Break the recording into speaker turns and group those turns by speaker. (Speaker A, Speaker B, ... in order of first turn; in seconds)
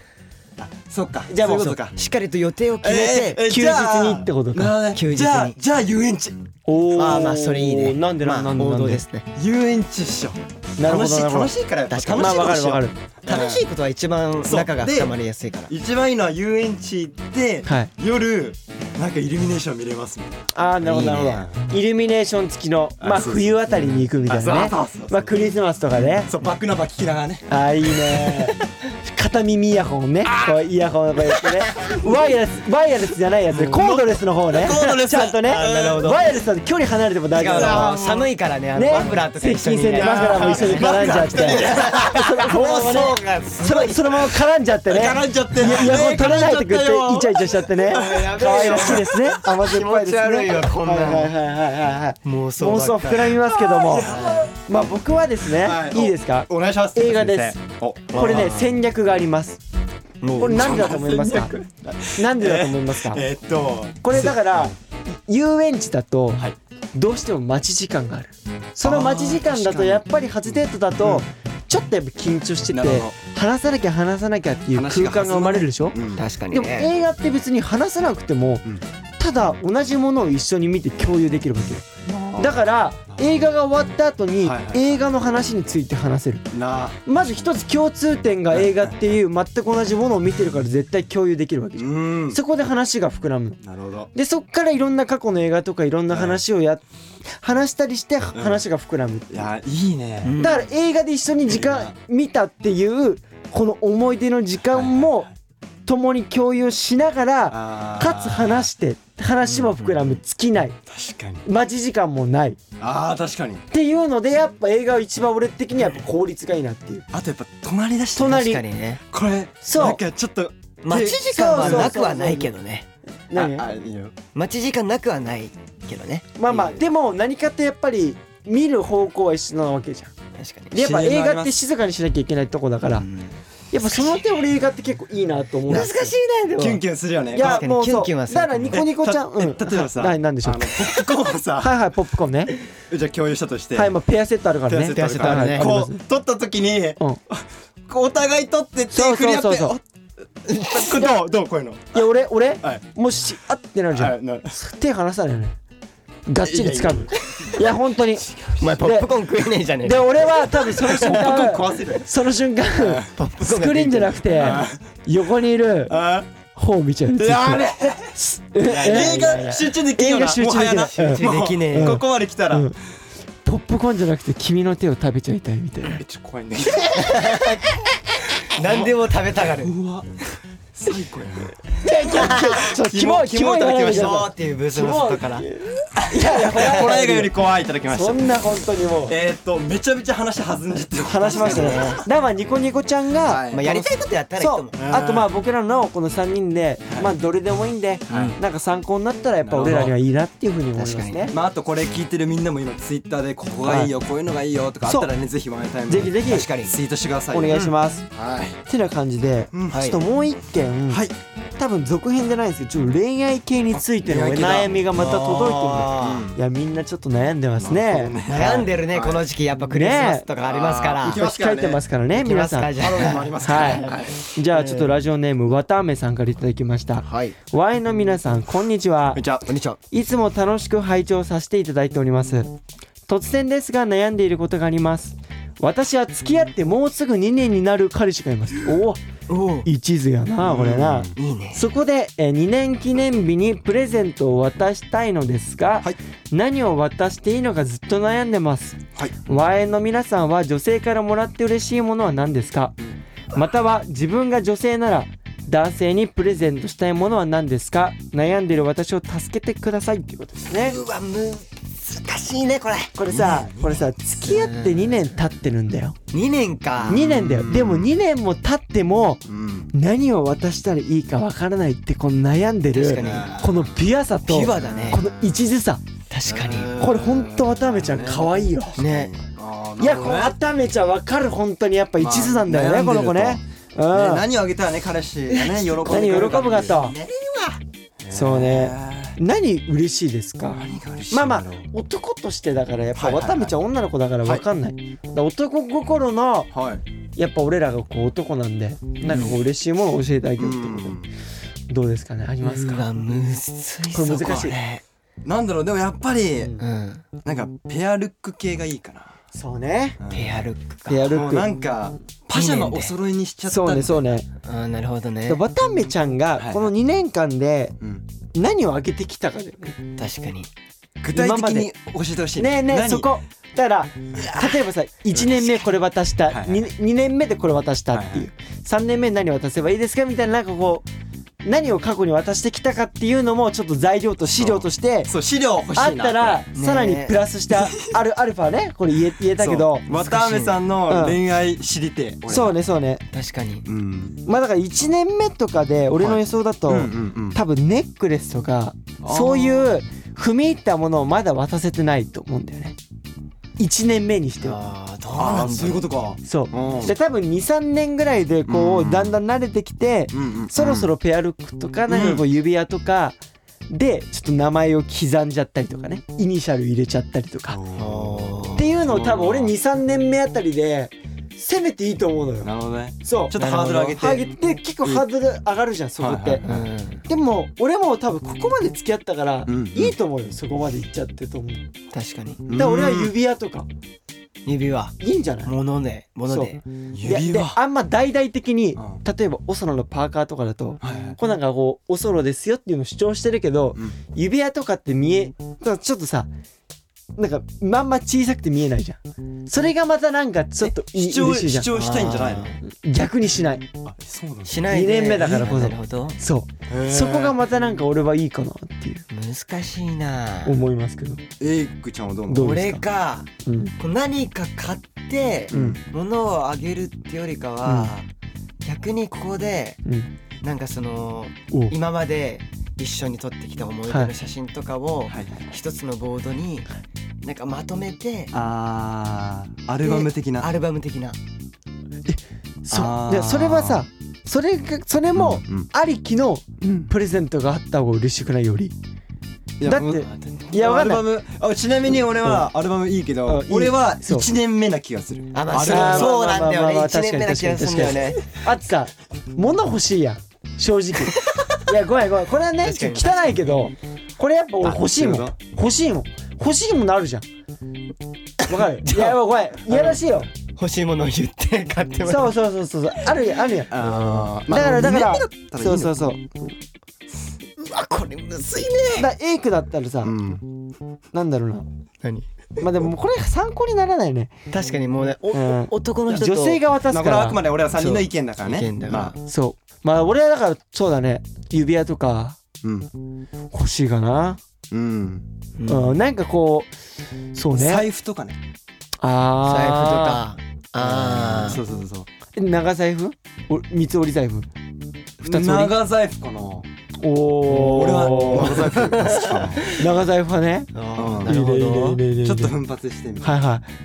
Speaker A: 0.6-2.0, 2.8-6.5, 9.4-13.6, 14.4-15.1, 15.7-21.7, 23.0-25.5, 26.0-28.5, 30.2-30.6, 31.3-31.9, 33.5-36.2, 37.5-38.3, 38.9-39.2, 39.9-42.3, 44.9-49.2, 53.0-54.5, 55.5-58.5, 60.3-64.7, 68.8-71.3, 72.7-73.1, 74.7-76.2, 82.1-83.3, 84.4-85.0, 86.5-87.0, 88.5-88.9, 91.8-92.4, 93.6-94.1, 96.1-96.4, 98.3-98.6, 99.3-100.4, 101.5-101.9, 104.7-105.2, 107.5-108.7, 110.9-111.4, 112.8-113.7, 117.1-118.5, 119.1-122.0, 123.3-124.1, 126.5-126.8, 130.8-131.6, 136.6-137.6, 138.7-141.7, 142.9-143.9, 144.7-149.8, 150.7-152.0, 153.9-154.5, 156.4-157.5, 160.7-162.1, 162.8-163.2, 164.3-164.8, 165.9-166.3, 167.2-172.7, 175.8-177.4, 178.6-178.9, 179.6-180.2, 180.7-184.2, 185.9-188.4, 189.1-192.0, 193.2-193.9, 194.7-195.3, 198.1-198.4, 199.4-199.9, 201.3-208.6, 209.5-209.8, 210.9-211.1, 213.7-216.4, 217.6-219.2, 220.4-221.8, 222.7-224.9, 229.1-229.5, 240.4-241.2, 248.9-249.3, 263.1-263.5, 266.8-267.9, 269.2-269.7, 273.0-273.7, 276.2-278.2, 278.8-280.4, 282.0-286.7, 288.0-289.2, 290.5-291.7, 292.9-293.5, 296.5-296.8, 299.1-299.3, 300.4-301.1, 305.2-306.5, 307.2-309.2, 310.0-310.4, 311.1-314.2, 316.4-316.7, 317.8-318.1, 321.0-323.1, 326.3-326.6, 327.9-328.3, 334.3-336.4, 339.4-342.6, 343.6-344.2, 346.0-347.4, 349.0-349.7, 355.1-356.9, 358.5-359.2, 360.1-360.9, 361.9-362.2, 367.5-369.5, 372.4-374.2, 376.0-376.6, 379.5-379.9, 382.4-383.1, 386.9-387.6, 390.8-391.2, 400.9-402.5, 403.8-404.6, 406.7-407.4, 411.4-412.6, 415.5-415.8, 425.1-425.4, 428.3-430.5, 432.7-433.9, 435.1-435.7, 436.6-436.9, 439.6-446.1, 454.6-455.4, 463.7-465.9, 470.0-470.4, 476.9-479.1, 482.6-482.9, 484.7-485.2, 487.5-488.4, 490.8-492.1, 495.2-496.7, 497.6-499.6, 500.9-501.4, 502.2-503.4
Speaker B: 1.3-1.8, 3.5-4.8, 6.7-9.0, 10.8-11.5, 12.2-13.0, 20.5-26.3, 27.5-38.0, 38.8-54.1, 54.7-57.6, 58.1-59.6, 60.4-61.6, 62.1-63.2, 64.0-76.0, 76.5-78.6, 79.2-86.5, 87.1-93.6, 94.1-99.5, 100.4-105.3, 105.9-110.8, 111.4-112.6, 113.7-117.0, 118.2-118.6, 119.6-120.0, 121.3-122.5, 123.3-123.7, 126.4-130.1, 130.7-133.1, 133.7-136.1, 137.3-140.9, 141.6-142.6, 143.7-146.0, 148.9-149.8, 151.9-155.6, 156.3-159.1, 159.8-166.0, 166.5-172.8, 173.4-176.0, 181.8-187.3, 187.9-189.2, 191.1-193.8, 194.4-201.3, 203.6-203.9, 205.9-206.5, 207.3-208.1, 208.7-211.0, 211.6-218.2, 219.7-220.3, 221.1-229.2, 229.9-239.0, 239.6-252.8, 253.3-260.8, 262.9-265.9, 266.9-275.8, 276.8-278.8, 279.8-284.2, 285.9-286.9, 288.1-296.5, 297.1-301.0, 301.7-302.9, 303.9-304.6, 309.3-310.0, 310.9-311.5, 313.5-314.3, 315.3-317.7, 318.3-319.8, 321.1-321.7, 322.4-330.9, 331.4-335.1, 335.7-339.9, 340.9-341.2, 342.3-343.0, 344.2-352.8, 353.6-354.6, 356.2-363.2, 363.7-367.6, 368.6-372.5, 373.0-376.4, 377.1-381.7, 382.5-383.7, 385.0-385.5, 386.3-396.3, 397.1-401.7, 402.6-403.7, 404.7-409.1, 410.4-411.2, 412.3-412.8, 413.4-413.7, 417.6-417.9, 419.9-420.1, 423.9-424.1, 432.1-438.7, 439.6-441.1, 443.2-444.3, 445.6-457.2, 458.5-460.3, 462.1-463.7, 464.5-466.2, 469.0-470.2, 471.1-471.7, 472.6-474.4, 475.3-477.4, 479.2-482.4, 483.5-484.4, 485.7-486.7, 487.3-487.9, 489.0-490.2, 492.3-494.5, 495.2-495.8, 497.0-498.9, 499.6-500.7, 501.2-502.6, 503.2-503.6
Speaker C: 1.9-3.4, 4.9-5.6, 6.9-9.3, 11.9-15.7, 35.5-36.2, 37.4-44.2, 47.9-51.3, 52.2-53.3, 54.0-54.5, 58.1-58.8, 60.2-60.8, 76.1-76.9, 100.2-100.6, 109.5-109.8, 118.2-119.0, 120.8-122.9, 124.3-126.5, 130.4-130.8, 132.9-133.3, 133.8-134.2, 135.7-136.8, 137.3-138.8, 144.9-145.7, 150.5-151.1, 158.6-161.3, 163.1-164.6, 168.7-169.4, 170.9-172.0, 176.9-177.8, 178.4-179.7, 182.1-182.7, 183.7-185.4, 191.3-192.0, 193.5-194.8, 198.1-198.4, 200.8-201.3, 206.2-206.7, 209.7-210.0, 215.5-216.2, 218.2-221.2, 222.1-223.9, 227.0-227.3, 229.5-229.8, 239.3-239.7, 241.2-241.6, 260.5-265.2, 266.1-267.0, 272.7-273.3, 274.2-275.1, 276.1-276.7, 278.8-279.2, 285.3-287.6, 299.1-299.3, 302.4-304.8, 306.6-307.0, 310.1-311.1, 312.3-312.9, 314.4-315.4, 320.0-320.5, 336.6-337.2, 339.9-340.6, 343.1-343.6, 354.4-355.9, 367.8-368.7, 373.4-374.0, 376.4-377.0, 381.9-382.5, 384.4-386.6, 401.7-402.6, 404.4-406.2, 409.1-410.6, 412.4-418.1, 418.6-419.8, 420.4-426.7, 427.2-428.3, 429.8-431.2, 440.1-440.4, 445.3-448.2, 452.6-453.2, 458.8-462.4, 463.8-464.2, 467.6-469.1, 472.0-472.6, 474.5-476.6, 477.7-479.2, 485.6-486.0, 489.4-491.6, 497.6-499.9, 500.7-502.0